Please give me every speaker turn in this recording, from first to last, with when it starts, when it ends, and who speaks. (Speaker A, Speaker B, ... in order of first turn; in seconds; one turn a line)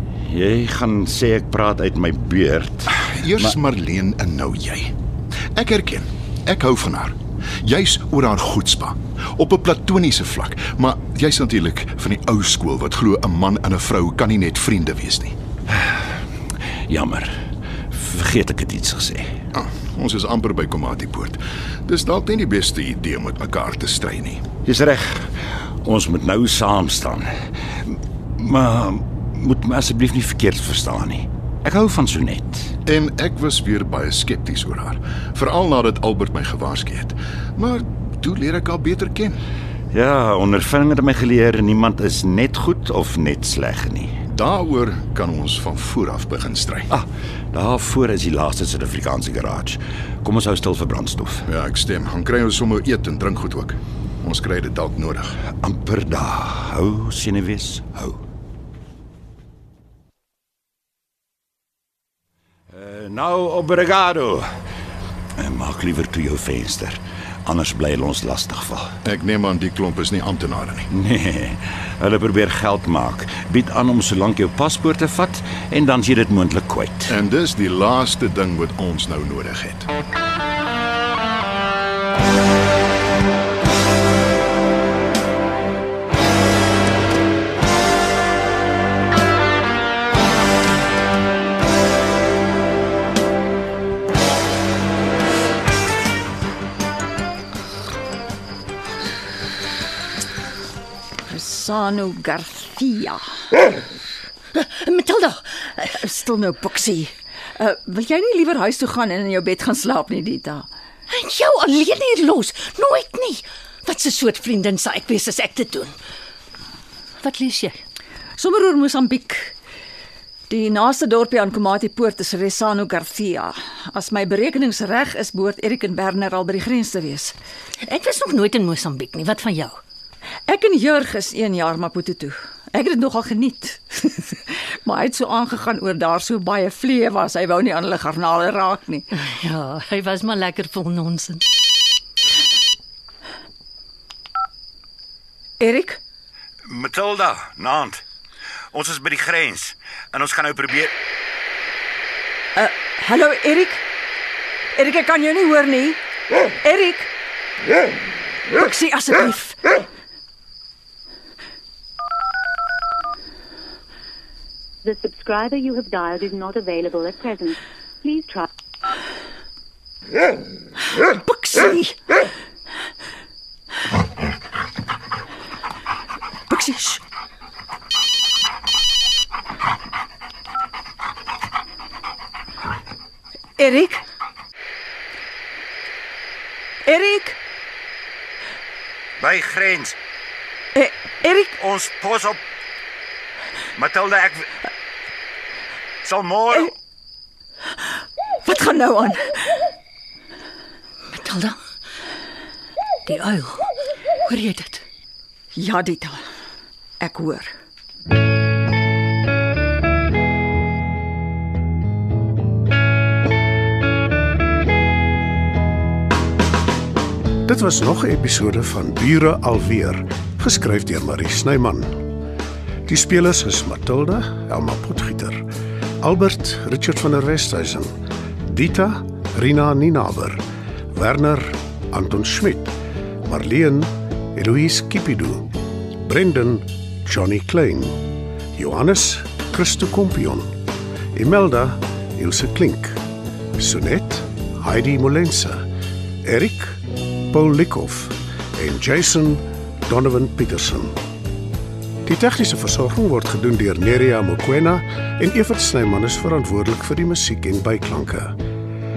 Speaker A: 0.2-3.5
Speaker B: 2.9-4.9
Speaker B: 5.5-15.3
Speaker A: 15.7-16.0
Speaker A: 16.9-17.4
Speaker A: 17.9-19.3
Speaker B: 19.5-24.4
Speaker A: 24.6-27.3
Speaker A: 27.8-32.7
Speaker B: 32.9-39.4
Speaker A: 39.9-44.1
Speaker B: 44.3-46.9
Speaker A: 46.9-51.5
Speaker B: 51.5-55.4
Speaker A: 55.6-58.2
Speaker A: 62.7-64.5
Speaker A: 65.4-68.9
Speaker B: 69.0-70.9
Speaker A: 70.9-77.1
Speaker B: 77.1-79.9
Speaker C: 101.2-103.4
Speaker D: 104.5-105.9
Speaker C: 105.9-110.7
Speaker D: 111.1-116.0
Speaker D: 117.2-117.8
Speaker C: 118.4-119.5
Speaker C: 120.5-127.3
Speaker D: 127.8-129.8
Speaker C: 130.5-139.1
Speaker D: 139.1-141.4
Speaker C: 145.6-146.0
Speaker A: 146.7-148.0
Speaker A: 148.7-150.9
Speaker C: 152.5-153.8
Speaker C: 154.7-156.0
Speaker C: 156.6-157.1
Speaker C: 158.5-159.7
Speaker E: 164.8-168.5
Speaker C: 170.9-171.9
Speaker C: 176.5-177.0
Speaker C: 183.6-184.0
Speaker C: 186.8-187.3
Speaker A: 189.2-189.9
Speaker C: 190.7-191.6
Speaker A: 191.6-192.4
Speaker A: 193.7-194.5
Speaker A: 196.0-196.7
Speaker C: 198.4-199.4
Speaker D: 201.1-201.6
Speaker D: 203.1-203.7
Speaker D: 204.2-204.8
Speaker C: 205.5-206.2
Speaker C: 207.0-207.5
Speaker F: 217.5-222.0
Speaker F: 222.8-225.4
Speaker F: 226.0-227.9
Speaker F: 228.4-230.4
Speaker F: 230.9-232.7
Speaker F: 233.2-238.0
Speaker F: 238.5-240.5
Speaker F: 241.1-243.0
Speaker F: 243.6-245.6
Speaker F: 246.2-250.9
Speaker F: 252.0-258.3